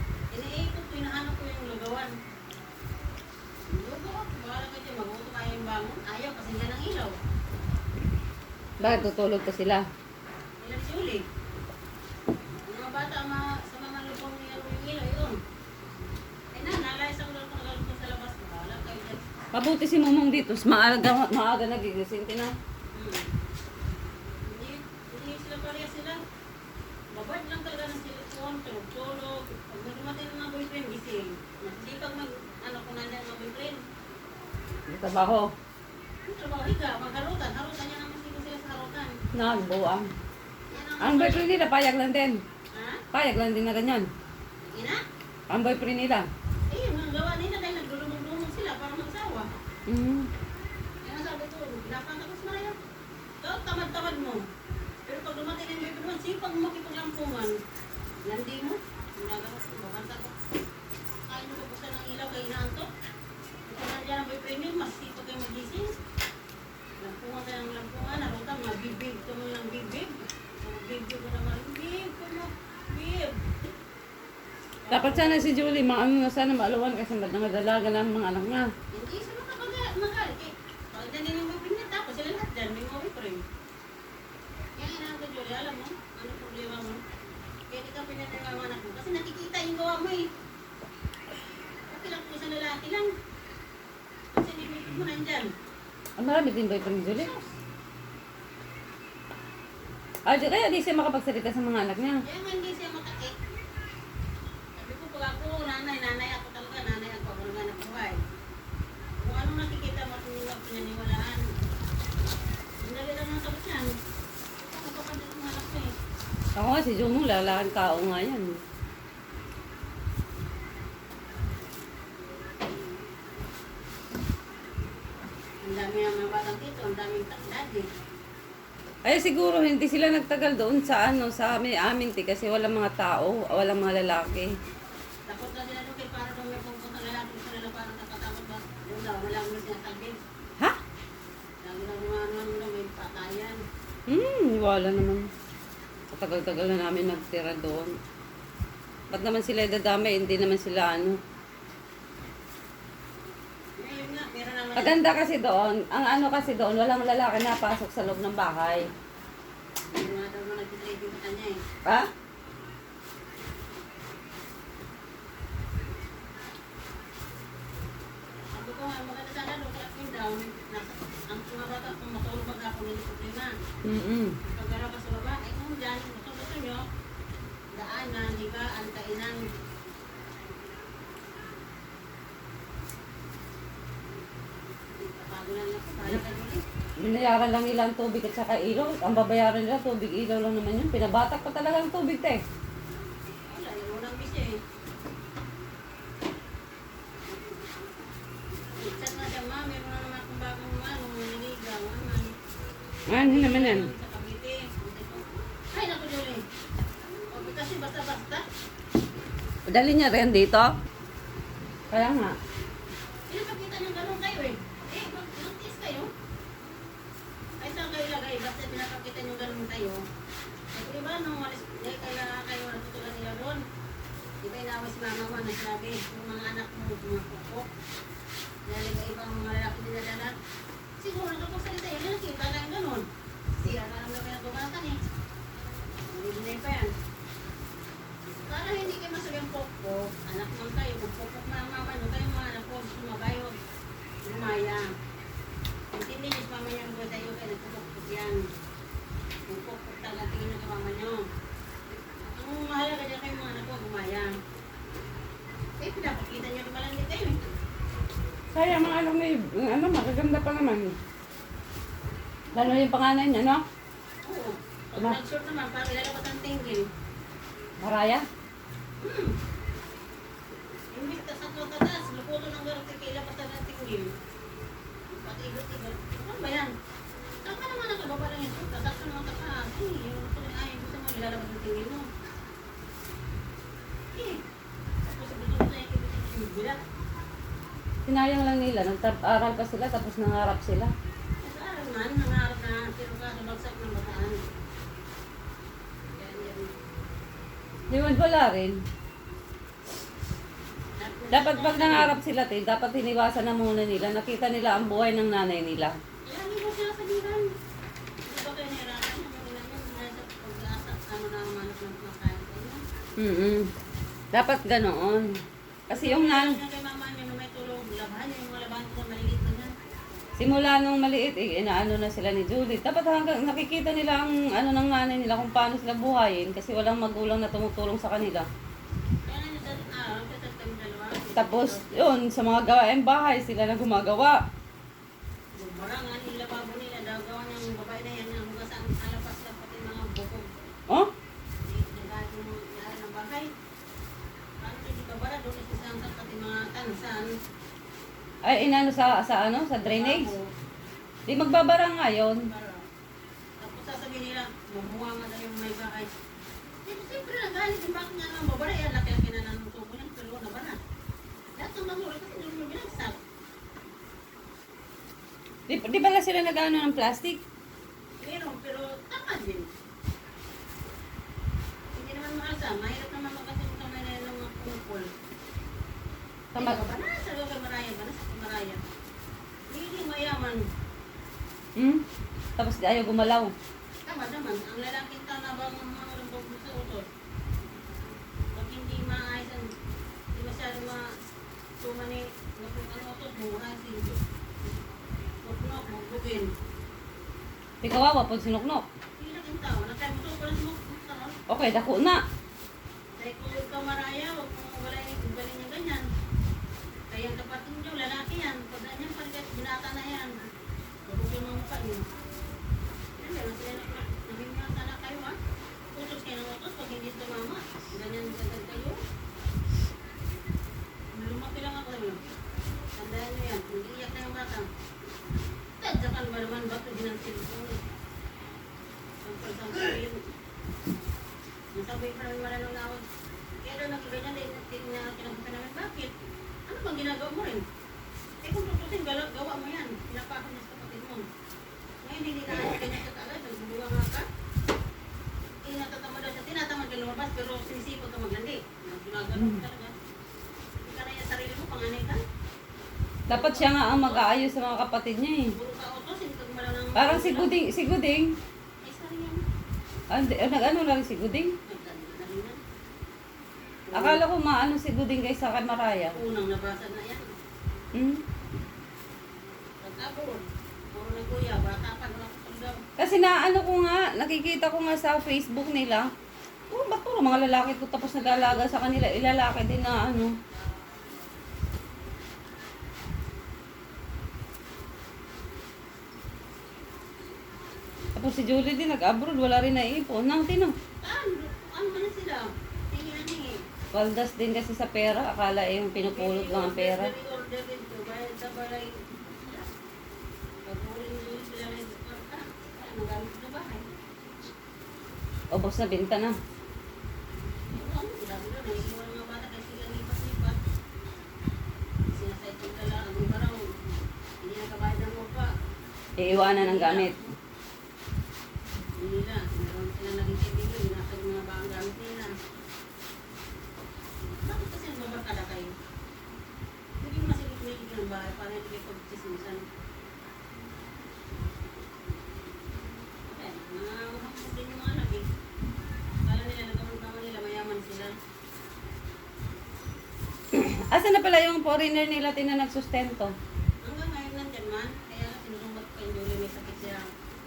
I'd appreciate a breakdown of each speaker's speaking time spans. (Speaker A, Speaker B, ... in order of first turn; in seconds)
Speaker A: 0.3-2.1, 3.7-7.2, 8.8-9.1, 10.6-11.2, 12.7-15.4, 16.5-19.2, 22.9-23.3, 24.5-26.2, 27.1-33.9, 36.3-39.2, 40.7-41.6, 42.7-43.0, 44.7-45.0, 46.7-49.5, 51.0-52.8, 53.4-54.4, 55.1-57.6, 58.2-60.3, 61.3-62.9, 63.7-66.0, 67.0-73.7, 74.8-75.6, 78.9-83.4, 84.8-87.0, 87.7-90.3, 91.9-93.1, 94.3-95.5, 97.1-97.5, 102.2-103.4, 104.8-108.2, 109.2-111.4, 112.8-113.9, 114.7-115.9, 125.6-127.9, 135.3-140.2, 141.6-143.6, 153.8-155.0, 159.9-161.6, 168.5-173.5, 174.4-176.8, 177.8-179.5, 185.0-186.6, 193.5-194.6, 198.8-202.3, 203.2-206.4, 207.3-208.4, 213.3-216.1, 217.6-220.0, 220.7-223.6, 224.4-227.7, 228.7-230.3, 231.0-233.1, 233.6-235.0, 236.1-236.9, 238.5-243.6, 244.2-244.8, 245.9-248.5, 249.5-251.2, 252.2-254.3, 255.8-257.4, 264.2-266.9, 269.0-269.3, 270.9-274.1, 275.1-276.7, 277.4-282.1, 284.1-284.4, 285.1-286.8, 291.4-294.5, 296.2-296.7, 301.0-302.1, 306.3-307.5, 308.3-312.8, 315.9-319.7, 329.3-332.1, 335.6-340.5, 341.7-343.5, 344.6-347.3, 349.9-350.5, 352.4-352.8, 353.6-356.1, 356.9-360.8, 361.6-363.2, 368.2-369.7, 371.9-375.1, 376.6-378.8, 379.7-380.7, 384.1-387.1, 388.5-389.7, 390.3-391.1, 391.8-394.2, 395.4-396.5, 399.2-401.4, 403.2-406.1, 407.1-410.4, 411.1-412.1, 413.2-415.4, 415.9-419.0, 421.1-422.2, 423.0-424.7, 425.8-427.8, 429.2-430.2, 431.8-433.0, 433.6-436.1, 436.7-437.6, 438.4-441.2, 442.0-444.2, 445.6-449.9, 450.8-452.2, 453.3-454.6, 455.5-457.5, 458.8-459.4, 461.7-462.6, 463.9-464.2, 466.1-467.3, 469.8-472.8, 478.3-478.7, 491.0-493.6, 496.0-499.6, 500.7-503.9, 507.7-510.6, 512.1-515.5, 516.3-517.3, 519.0-522.3, 524.4-525.7, 527.0-529.6, 533.3-535.3, 536.2-538.1, 543.8-547.0
Speaker B: 8.8-9.8, 19.5-22.5, 34.9-35.5, 39.3-40.1, 41.0-42.4, 43.1-44.1, 45.5-46.3, 49.9-50.3, 74.9-78.7, 96.2-97.3, 100.3-102.2, 116.6-118.6, 129.1-134.5, 144.1-145.3, 146.1-147.9, 149.1-151.2, 154.8-158.9, 173.8-174.4, 187.0-192.4, 203.1-203.9, 209.7-210.7, 211.9-212.4, 258.5-261.0, 262.6-263.6, 267.8-268.2, 288.1-290.9, 297.9-298.8, 301.3-305.9, 313.2-313.7, 314.3-315.4, 315.9-316.6, 320.4-328.5, 331.4-334.4, 348.4-350.3, 351.3-352.4, 365.7-367.4, 376.6-376.8, 381.8-382.0, 382.6-383.5, 397.8-398.9, 401.5-402.2, 453.3-455.5, 457.0-458.4, 460.1-461.5, 463.9-466.2, 467.9-468.2, 473.0-476.1, 476.7-480.3, 488.2-490.8, 493.9-497.1, 505.5-506.3, 516.2-517.2, 540.5-543.3